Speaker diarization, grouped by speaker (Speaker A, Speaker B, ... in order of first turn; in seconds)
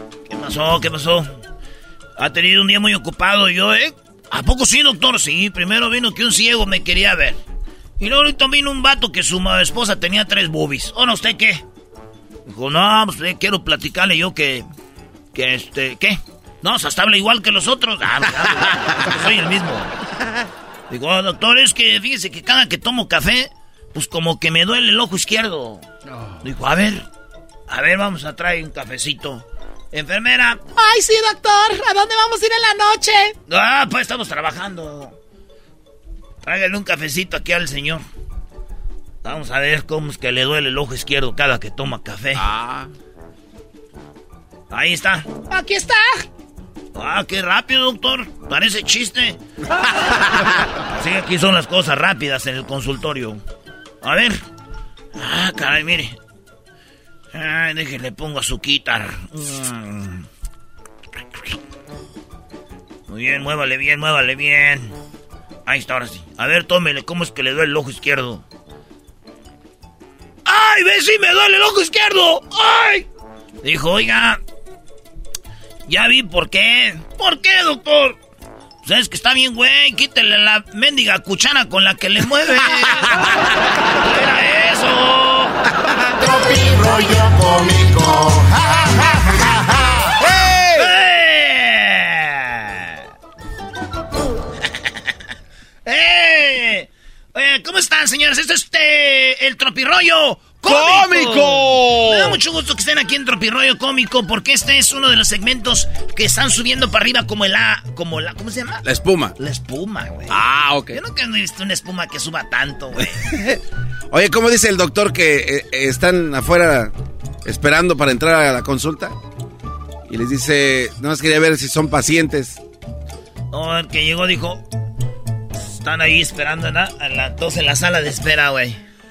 Speaker A: 0.3-1.3, 2.2-7.4, 8.0-11.6, 12.5-14.7, 15.3-19.9, 20.9-25.9, 26.4-27.1, 27.7-30.6, 33.5-35.1, 36.4-38.0, 39.2-42.4, 44.7-45.3, 46.9-49.4, 50.9-53.4, 54.0-54.4, 55.1-56.1, 57.3-60.2, 63.1-64.9, 65.7-68.4, 70.5-73.1, 73.6-74.4, 75.9-78.2, 78.8-83.2, 84.0-85.6, 90.7-92.9, 95.8-108.8, 109.4-110.4, 110.9-113.2, 123.5-124.6, 125.6-128.8
Speaker B: 30.8-33.3, 45.5-46.2
Speaker C: 42.3-42.9, 90.3-90.8, 100.6-102.4, 108.8-109.3, 110.3-111.0, 113.3-113.6, 114.1-116.9, 117.4-119.1, 120.1-122.6